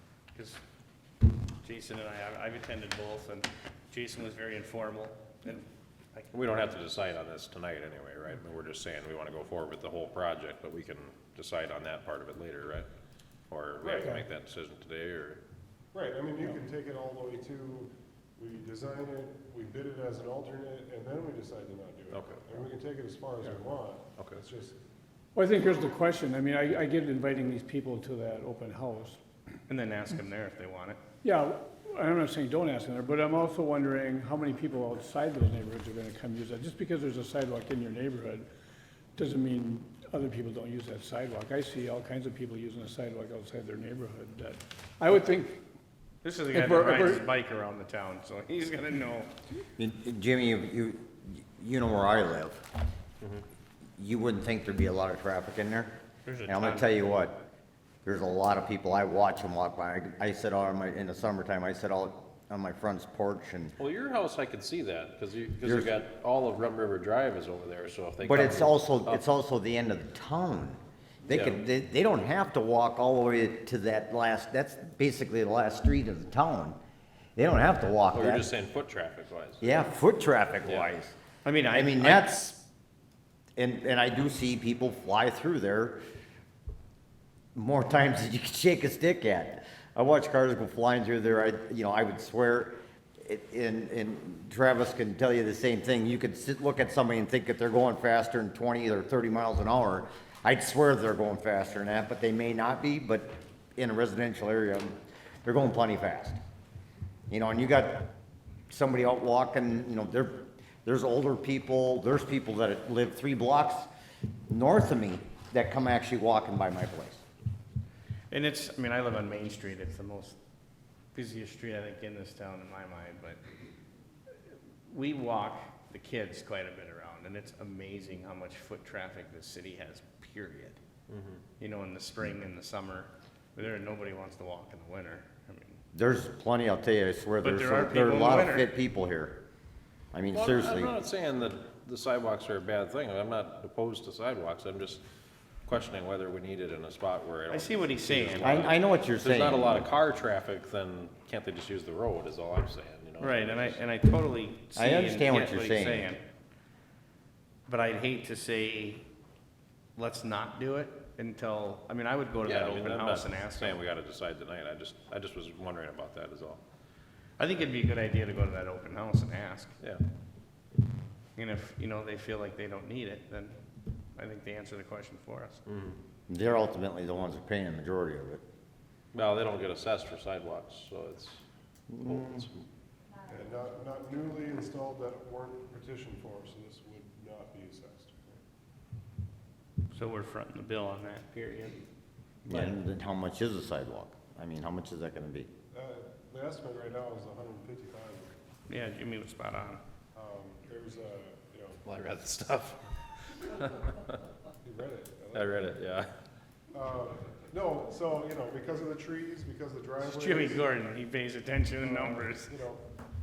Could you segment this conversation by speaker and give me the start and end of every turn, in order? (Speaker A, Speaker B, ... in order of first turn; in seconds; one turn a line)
Speaker A: 0.3-0.6
Speaker A: 1.6-6.3
Speaker B: 6.3-12.9
Speaker B: 13.5-15.4
Speaker C: 13.8-14.2
Speaker D: 15.9-24.8
Speaker B: 22.1-22.6
Speaker B: 24.2-24.4
Speaker C: 25.3-29.2
Speaker A: 29.7-31.0
Speaker C: 31.2-38.5
Speaker C: 39.1-45.6
Speaker A: 46.2-49.3
Speaker C: 46.5-47.2
Speaker E: 49.8-52.6
Speaker E: 54.0-57.5
Speaker A: 56.2-56.9
Speaker E: 58.0-63.7
Speaker B: 63.8-69.2
Speaker E: 65.6-65.9
Speaker E: 68.2-76.8
Speaker B: 71.2-71.6
Speaker E: 77.3-78.5
Speaker B: 78.1-79.8
Speaker E: 79.6-81.1
Speaker A: 81.4-82.3
Speaker E: 81.7-82.6
Speaker E: 83.6-86.0
Speaker E: 87.5-106.4
Speaker E: 107.3-108.1
Speaker E: 108.7-113.9
Speaker E: 114.5-117.2
Speaker A: 118.3-120.4
Speaker A: 121.1-123.4
Speaker A: 124.9-130.8
Speaker B: 131.1-131.4
Speaker A: 131.6-135.8
Speaker E: 135.9-139.4
Speaker A: 137.4-138.7
Speaker E: 140.1-140.9
Speaker B: 140.3-145.0
Speaker B: 145.7-153.8
Speaker A: 147.5-148.7
Speaker E: 148.4-149.9
Speaker A: 153.2-156.2
Speaker E: 154.8-156.1
Speaker A: 157.7-159.1
Speaker A: 160.0-163.8
Speaker B: 162.4-166.6
Speaker A: 167.4-169.7
Speaker A: 171.3-173.6
Speaker A: 174.2-175.6
Speaker B: 175.7-176.0
Speaker E: 176.3-178.4
Speaker B: 179.1-181.4
Speaker E: 181.9-182.2
Speaker B: 182.0-182.6
Speaker D: 183.3-188.4
Speaker A: 189.9-191.8
Speaker A: 192.4-192.7
Speaker E: 192.5-195.5
Speaker D: 195.7-198.3
Speaker A: 198.7-199.8
Speaker D: 200.1-201.8
Speaker B: 201.8-204.2
Speaker D: 204.6-205.7
Speaker B: 205.3-206.1
Speaker D: 206.7-210.8
Speaker A: 210.0-212.5
Speaker D: 211.8-212.9